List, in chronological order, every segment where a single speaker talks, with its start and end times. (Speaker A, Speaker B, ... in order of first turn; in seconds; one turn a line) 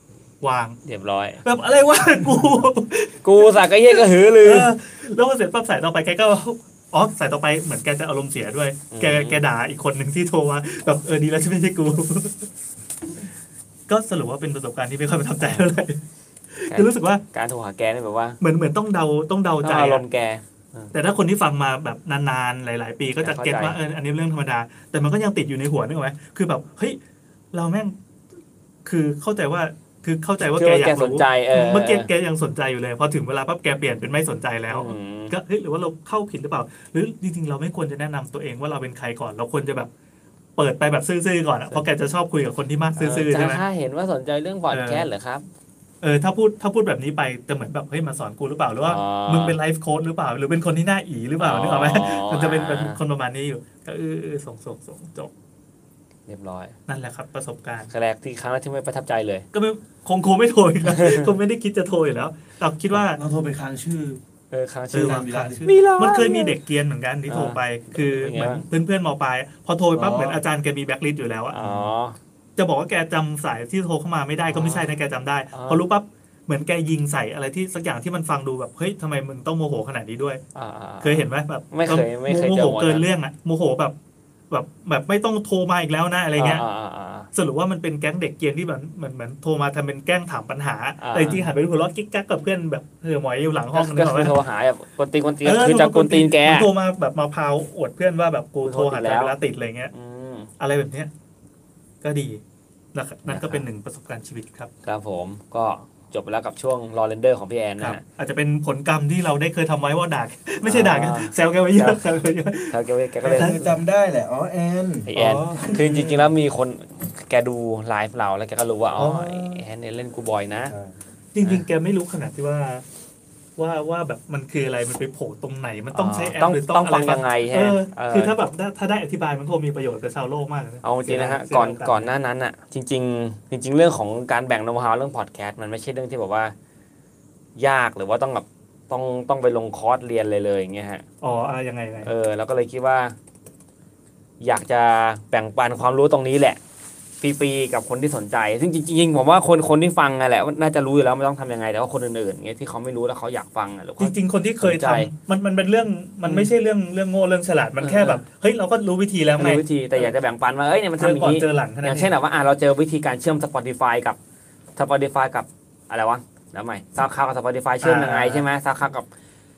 Speaker A: 0.4-0.8
Speaker B: 0.8-1.4
Speaker A: 1.4-12.5
Speaker B: 3.2-4.7
Speaker B: 8.9-9.4
Speaker A: 13.9-16.0
Speaker B: 15.4-15.7
Speaker A: 16.6-17.2
Speaker B: 16.7-18.4
Speaker A: 18.4-20.1
Speaker B: 19.6-20.9
Speaker A: 20.9-27.0
Speaker B: 23.2-23.8
Speaker A: 27.5-27.9
Speaker A: 28.9-39.9
Speaker B: 30.6-32.1
Speaker B: 34.7-35.3
Speaker A: 40.6-43.6
Speaker B: 43.0-45.5
Speaker A: 44.7-45.1
Speaker A: 46.0-55.3
Speaker B: 48.8-49.6
Speaker B: 51.4-53.0
Speaker B: 56.3-56.8
Speaker A: 56.9-57.9
Speaker B: 57.9-59.5
Speaker A: 59.5-63.2
Speaker B: 60.9-61.3
Speaker C: 62.9-64.2
Speaker B: 64.5-66.6
Speaker A: 64.9-71.8
Speaker C: 64.9-65.7
Speaker B: 67.3-68.7
Speaker C: 70.0-70.4
Speaker B: 71.5-72.2
Speaker A: 72.6-80.4
Speaker B: 74.5-74.9
Speaker B: 75.5-75.8
Speaker B: 80.5-83.1
Speaker A: 81.0-84.0
Speaker A: 84.5-86.7
Speaker B: 86.4-87.3
Speaker A: 87.3-94.4
Speaker B: 91.0-91.5
Speaker B: 93.7-96.7
Speaker A: 95.4-99.9
Speaker B: 98.6-99.4
Speaker B: 99.9-100.5
Speaker A: 100.6-101.1
Speaker A: 102.0-102.4
Speaker A: 102.9-104.7
Speaker B: 103.3-103.6
Speaker B: 104.8-108.0
Speaker A: 107.8-113.6
Speaker B: 110.6-112.1
Speaker B: 112.7-113.8
Speaker C: 113.2-116.3
Speaker B: 115.1-120.7
Speaker C: 119.0-119.6
Speaker A: 121.3-122.8
Speaker A: 123.6-132.1
Speaker B: 125.9-128.3
Speaker B: 130.8-136.6
Speaker B: 137.6-141.0
Speaker A: 141.2-142.1
Speaker B: 142.0-143.2
Speaker B: 144.4-146.6
Speaker B: 147.2-155.1
Speaker A: 154.0-160.1
Speaker B: 157.8-158.2
Speaker B: 159.4-164.2
Speaker A: 161.0-162.2
Speaker B: 164.8-169.1
Speaker A: 167.8-168.5